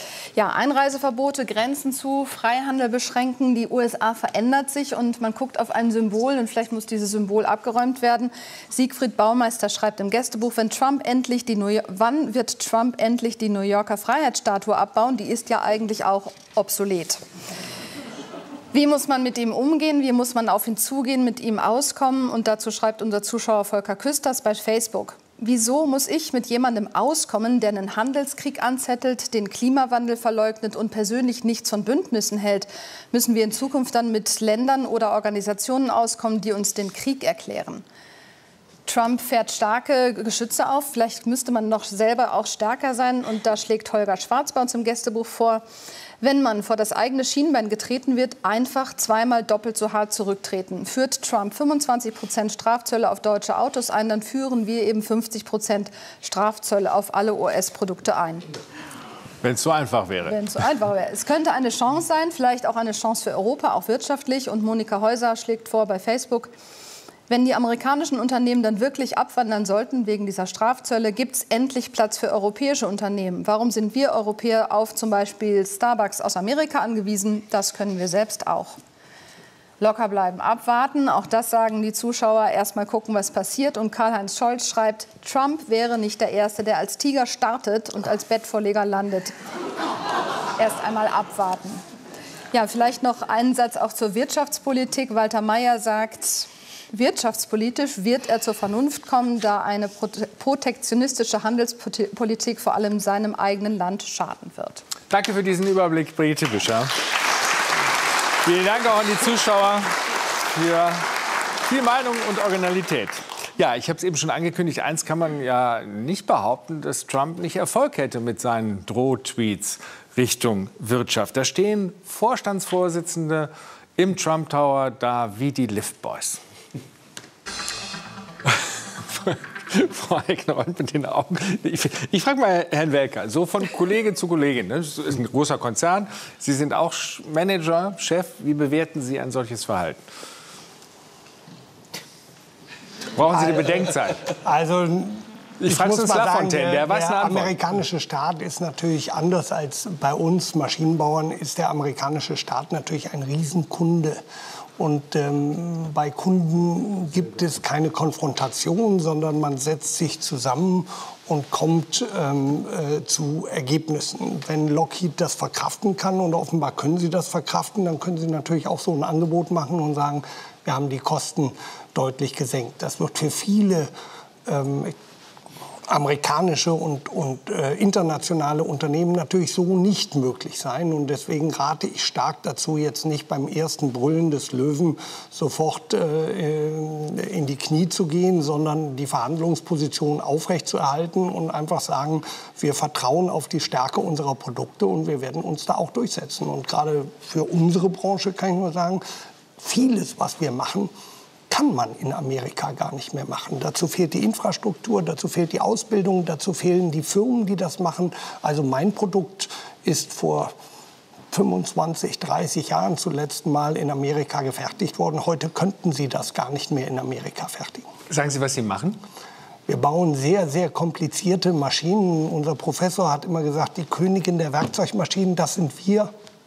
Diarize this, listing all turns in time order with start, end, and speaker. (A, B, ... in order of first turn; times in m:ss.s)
0:00.4-0:17.2 A
0:18.7-0:37.8 A
0:38.9-0:45.6 A
0:46.2-0:58.5 A
0:59.4-1:00.4 B
1:00.3-1:06.5 A
1:07.3-1:18.8 A
1:19.8-1:29.3 A
1:30.6-1:31.8 A
1:32.5-1:44.8 A
1:45.1-1:46.9 B
1:48.4-1:49.9 B
1:50.5-1:51.0 B
1:51.7-2:06.4 B
2:08.5-2:20.0 B
2:23.1-2:24.2 B
2:23.3-2:23.8 C
2:24.4-2:34.2 C
2:25.6-2:27.6 B
2:34.8-2:53.9 C
2:54.5-2:55.0 C
2:55.9-3:19.0 C
3:19.6-3:20.9 C
3:21.5-3:30.5 C
3:31.3-3:37.9 C
3:38.1-3:39.0 B
3:39.7-3:46.1 C